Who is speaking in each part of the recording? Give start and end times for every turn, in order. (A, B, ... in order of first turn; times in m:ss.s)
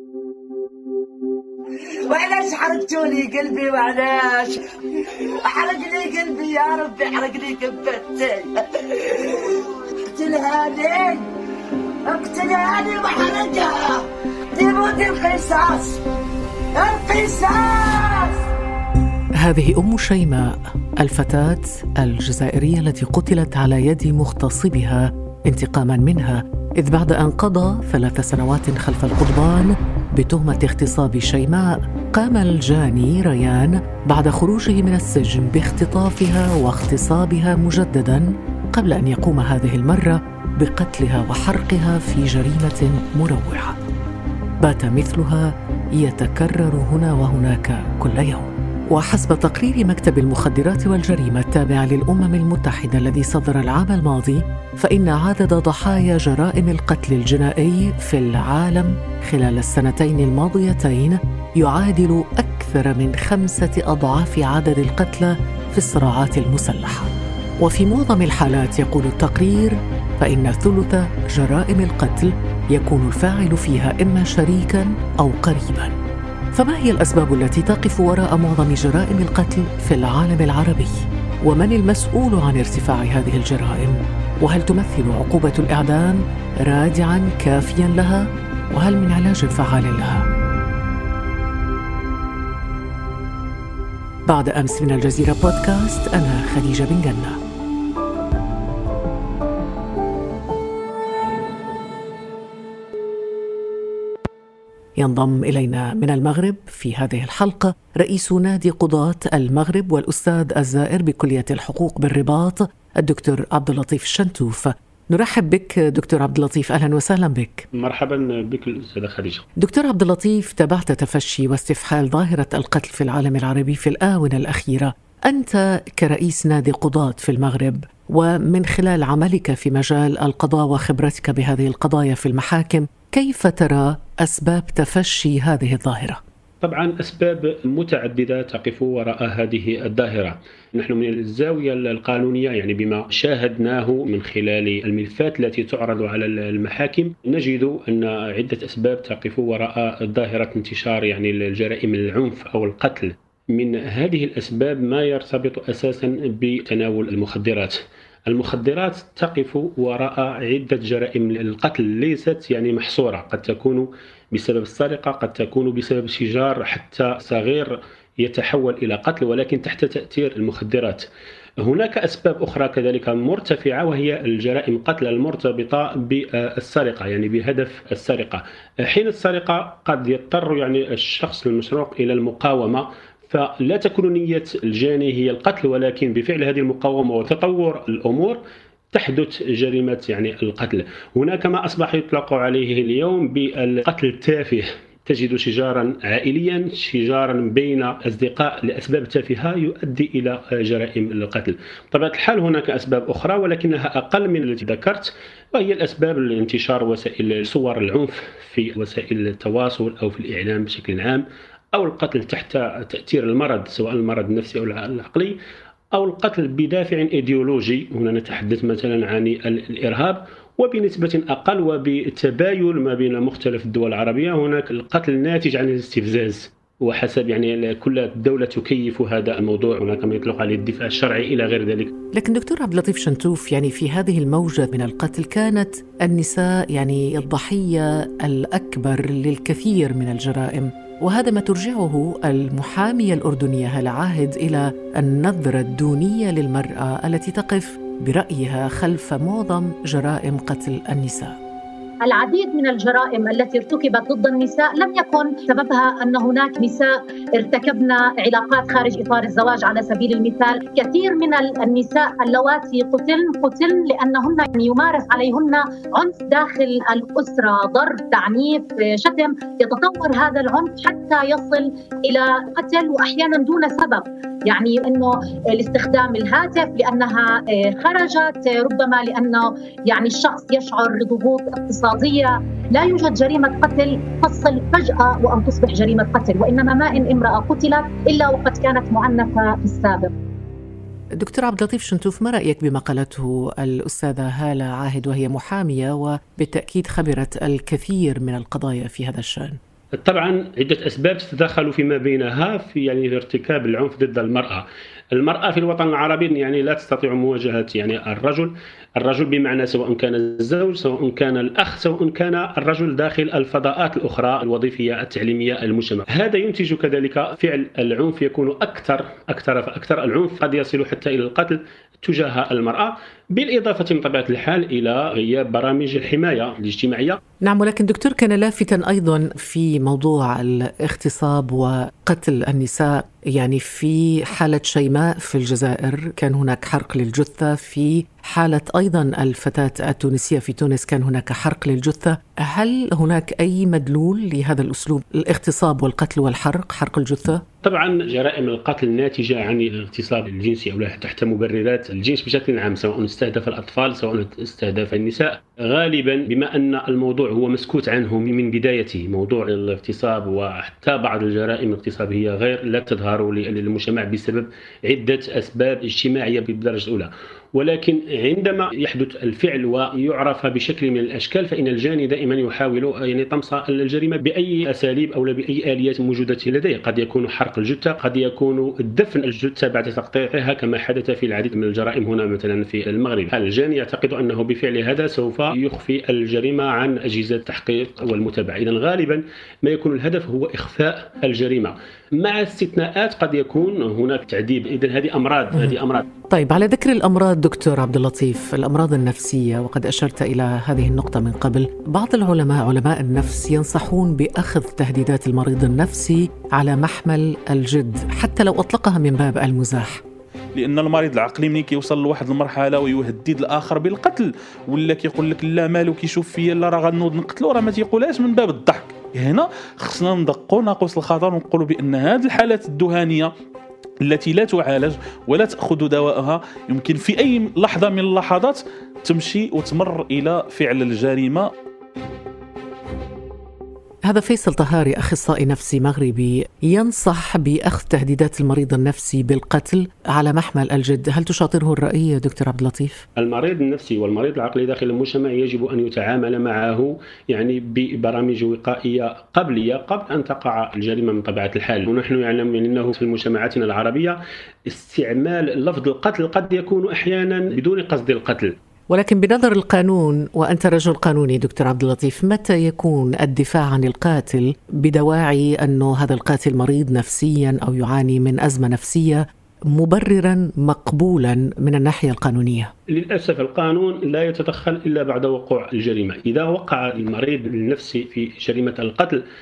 0:02.0-0:04.6 A
0:05.2-0:11.3 A
0:12.0-0:16.0 A
0:16.7-0:18.4 A
0:19.4-0:43.8 B
0:44.6-1:16.0 B
1:16.5-1:30.3 B
1:34.3-1:37.4 B
1:45.0-1:57.7 B
1:57.7-1:59.4 C
1:59.6-2:16.2 B
2:16.6-2:51.1 C
2:51.6-3:08.4 C
3:08.9-3:35.4 C
3:35.9-3:51.9 C
3:52.2-4:11.4 B
4:12.0-4:50.1 D
4:51.2-4:59.6 B
5:00.0-5:27.2 C
5:27.4-5:47.4 B
5:47.6-6:36.0 C
6:36.3-6:50.0 B
6:50.5-7:03.3 E
7:04.0-7:11.5 E
7:14.1-7:23.0 B
7:23.2-7:38.6 C
7:38.9-7:52.7 B
7:52.9-7:59.2 C